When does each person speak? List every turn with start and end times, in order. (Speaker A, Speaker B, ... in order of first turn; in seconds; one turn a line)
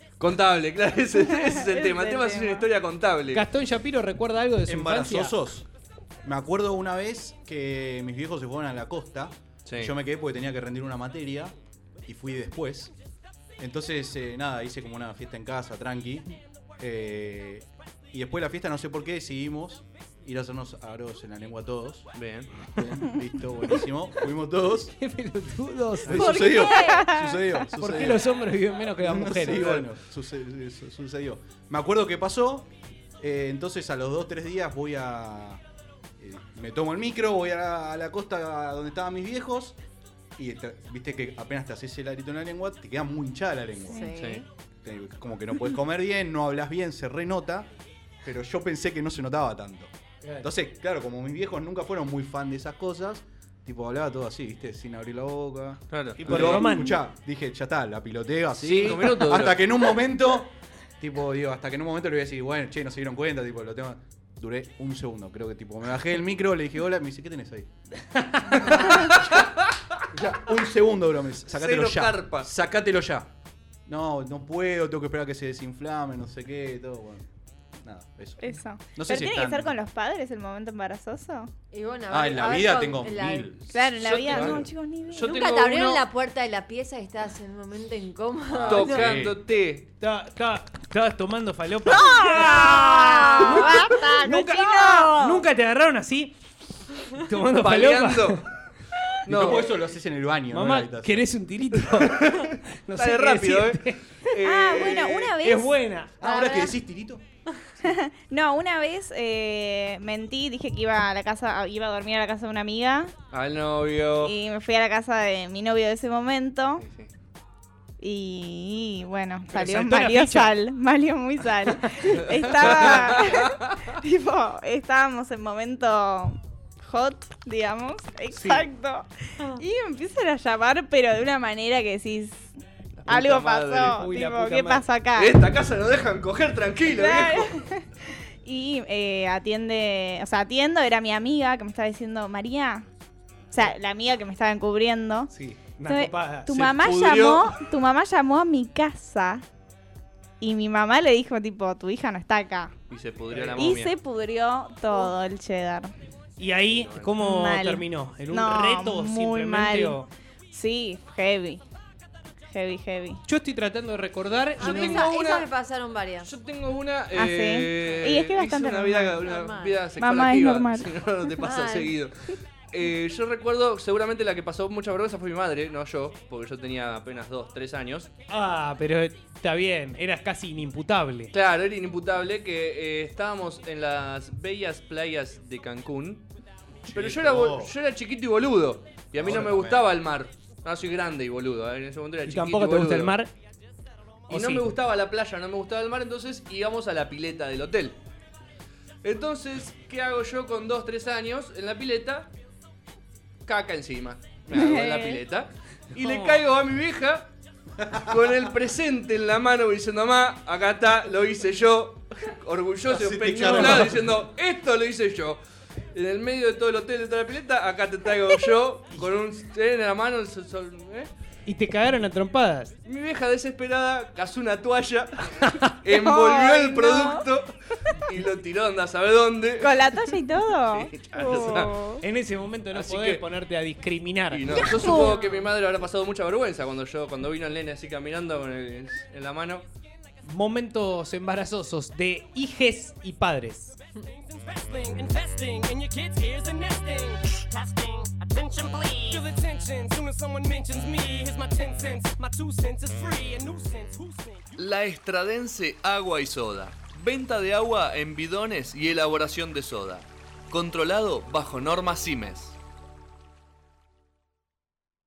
Speaker A: 0.2-3.4
Speaker B: 1.1-2.7
Speaker C: 3.3-5.4
Speaker D: 4.7-5.7
Speaker D: 6.2-12.9
Speaker A: 9.7-9.9
Speaker D: 13.6-22.1
Speaker A: 22.1-22.5
Speaker D: 22.6-24.9
Speaker C: 25.0-26.4
Speaker D: 26.1-28.2
Speaker E: 26.1-27.1
Speaker B: 26.7-27.3
Speaker C: 27.7-29.8
Speaker D: 29.0-32.7
Speaker A: 29.5-29.8
Speaker D: 33.2-35.6
Speaker D: 36.2-39.8
Speaker D: 40.4-44.1
Speaker E: 43.9-44.5
Speaker A: 44.1-44.4
Speaker D: 44.8-47.7
Speaker D: 48.2-67.7
Speaker A: 55.9-56.6
Speaker C: 56.2-57.0
Speaker A: 58.6-59.6
Speaker A: 68.6-69.7
Speaker D: 70.1-73.3
Speaker A: 71.5-72.5
Speaker D: 73.8-77.2
Speaker D: 77.8-79.8
Speaker B: 78.4-81.5
Speaker E: 81.7-83.5
Speaker D: 82.1-83.6
Speaker A: 83.6-86.0
Speaker B: 83.7-85.3
Speaker D: 84.3-84.7
Speaker E: 85.2-89.1
Speaker D: 88.5-89.4
Speaker A: 88.6-89.9
Speaker C: 90.0-98.5
Speaker B: 92.0-95.4
Speaker E: 92.2-93.7
Speaker A: 97.6-98.5
Speaker D: 99.3-101.3
Speaker A: 99.3-99.7
Speaker C: 100.5-106.2
Speaker A: 102.0-105.3
Speaker B: 104.4-105.8
Speaker D: 106.2-107.2
Speaker E: 106.2-106.8
Speaker B: 107.8-113.1
Speaker A: 113.3-114.3
Speaker B: 114.2-116.8
Speaker A: 116.8-117.1
Speaker B: 118.0-132.6
Speaker C: 119.5-120.5
Speaker A: 122.3-123.7
Speaker C: 128.3-128.7
Speaker A: 133.0-134.0
Speaker B: 133.1-135.3
Speaker C: 133.9-134.8
Speaker A: 135.2-137.5
Speaker B: 136.9-142.8
Speaker B: 143.5-145.3
Speaker C: 145.3-146.6
Speaker B: 145.8-149.4
Speaker A: 146.5-147.5
Speaker B: 150.4-152.7
Speaker A: 152.9-153.9
Speaker C: 153.3-153.7
Speaker B: 153.6-155.9
Speaker C: 156.4-160.1
Speaker A: 156.7-157.2
Speaker B: 157.2-160.0
Speaker B: 160.5-161.6
Speaker B: 162.5-163.2
Speaker C: 163.3-165.0
Speaker E: 164.6-166.3
Speaker A: 164.6-165.5
Speaker A: 166.2-172.1
Speaker B: 167.2-169.3
Speaker E: 169.2-169.8
Speaker B: 170.0-170.9
Speaker E: 171.4-171.9
Speaker A: 172.7-178.1
Speaker C: 178.3-181.3
Speaker A: 181.3-186.3
Speaker D: 186.8-187.7
Speaker A: 186.9-193.1
Speaker D: 189.2-189.9
Speaker C: 192.3-193.3
Speaker C: 194.3-194.7
Speaker A: 194.3-198.0
Speaker A: 199.0-202.3
Speaker A: 203.4-207.3
Speaker B: 204.5-205.2
Speaker D: 207.8-208.1
Speaker A: 207.9-215.4
Speaker D: 212.9-214.1
Speaker C: 213.5-213.9
Speaker A: 215.9-221.1
Speaker C: 221.5-222.7
Speaker A: 222.8-227.5
Speaker C: 225.5-225.8
Speaker B: 225.9-227.2
Speaker A: 228.0-230.1
Speaker B: 229.6-232.0
Speaker A: 230.7-231.8
Speaker C: 231.3-235.0
Speaker A: 232.7-233.2
Speaker A: 234.3-239.7
Speaker E: 234.5-235.5
Speaker C: 240.3-243.8
Speaker F: 244.2-254.5
Speaker A: 254.6-262.6